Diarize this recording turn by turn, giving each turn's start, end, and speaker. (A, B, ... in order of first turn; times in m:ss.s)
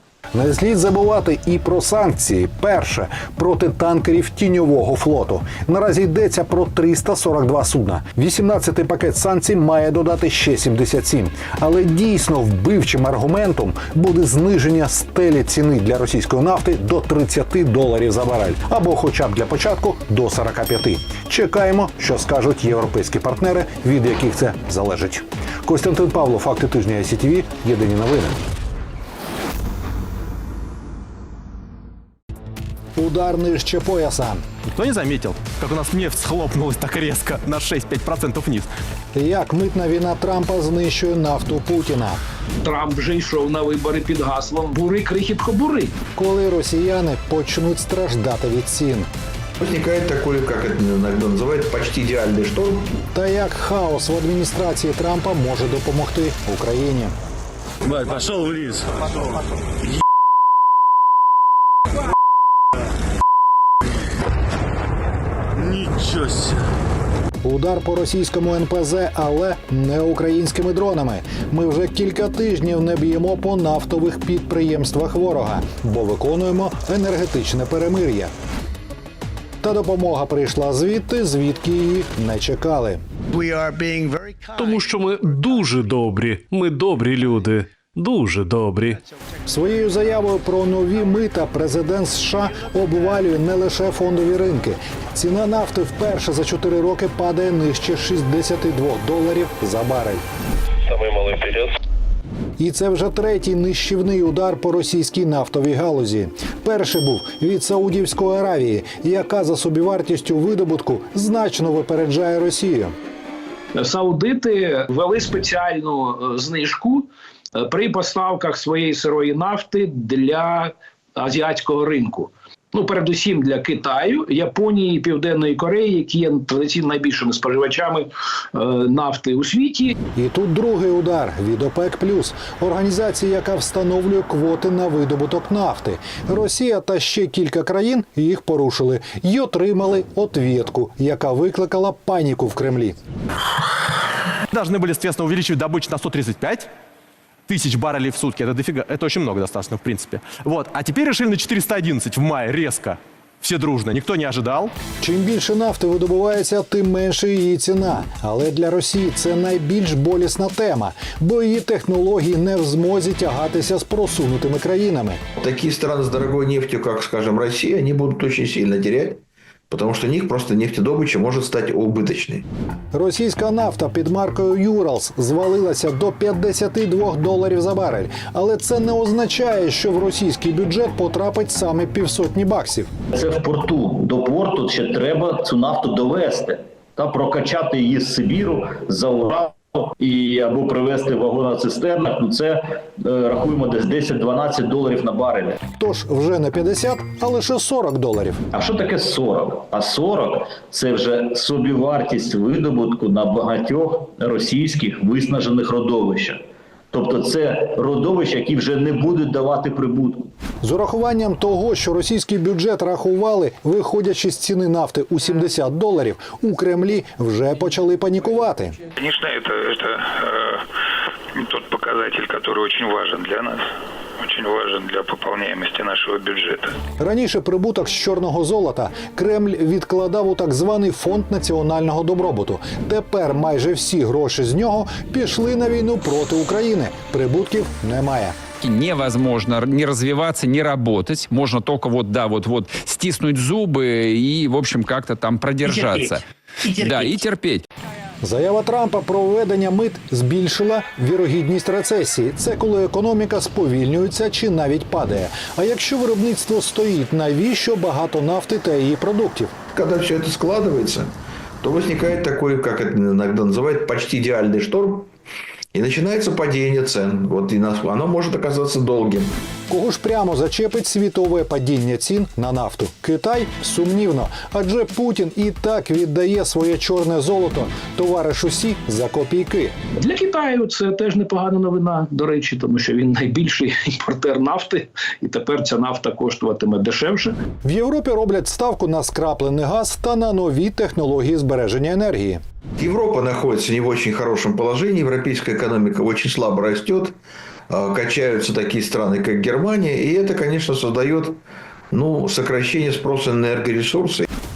0:00.3-0:28.4 A
0:33.0-0:34.4 A
0:34.7-0:38.7 B
0:39.1-0:42.2 A
0:42.6-0:46.0 C
0:46.1-0:49.1 A
0:49.6-0:52.9 D
0:53.1-0:57.2 A
1:07.4-1:18.3 A
1:19.6-1:23.0 A
1:24.5-1:29.0 E
1:29.4-1:40.2 A
1:42.6-1:52.9 A
1:53.7-2:09.9 C
2:10.1-2:23.0 A
2:24.5-2:26.7 B
2:27.5-2:34.7 B
2:35.0-2:45.2 A
2:45.4-2:52.4 D
2:52.9-3:02.9 A
3:03.1-3:15.6 F
3:15.7-3:18.4 A
3:18.5-3:30.3 F
3:30.6-3:38.8 A
3:38.9-3:40.6 G
3:41.3-3:43.7 G
3:44.2-3:46.8 G
3:47.0-3:58.4 A
3:58.6-4:07.6 H
4:08.2-4:19.5 A
4:19.7-4:25.1 D
4:25.7-4:29.3 D
4:29.7-4:39.7 A
4:40.0-4:47.4 C
4:47.6-4:52.4 A
4:52.8-4:57.2 D
4:57.7-5:01.4 D
5:01.9-5:04.2 D